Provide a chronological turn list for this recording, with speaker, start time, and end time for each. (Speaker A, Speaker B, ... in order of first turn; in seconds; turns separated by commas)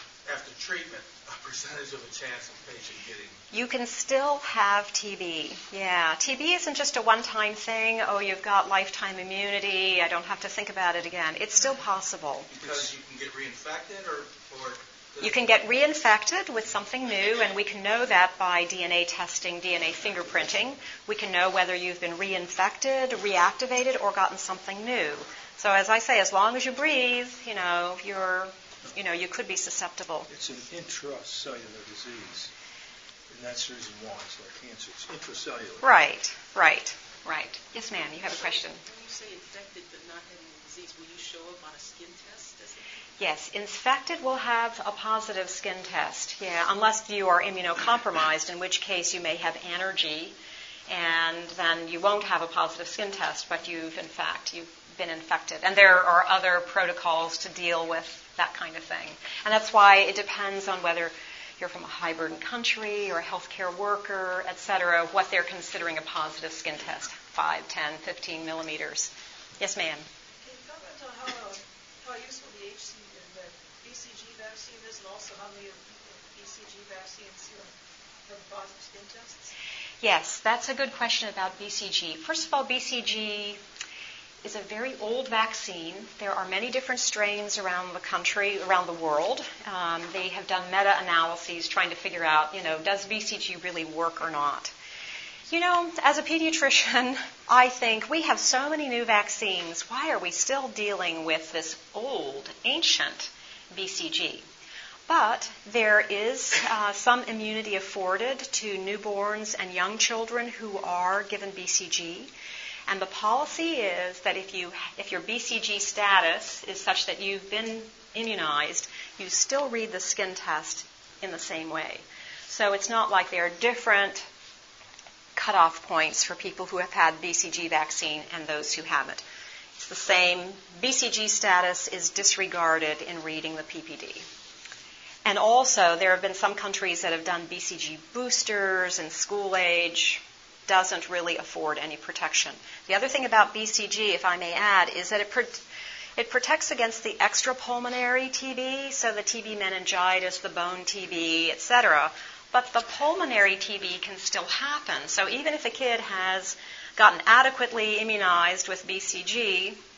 Speaker A: 0.2-3.4, Speaker B: 3.5-12.5, Speaker A: 12.5-15.5, Speaker C: 12.6-12.9, Speaker B: 15.2-30.3, Speaker C: 30.3-32.5, Speaker C: 33.3-35.9, Speaker B: 35.8-38.8, Speaker D: 38.2-42.9, Speaker B: 43.2-50.4, Speaker B: 50.9-70.1, Speaker E: 70.4-77.7, Speaker E: 78.3-79.5, Speaker B: 80.0-83.6, Speaker B: 84.4-94.7, Speaker B: 95.5-104.5, Speaker B: 105.1-112.3, Speaker B: 112.9-124.2, Speaker B: 125.4-129.2, Speaker B: 129.8-134.2, Speaker B: 135.2-145.6, Speaker B: 146.2-159.8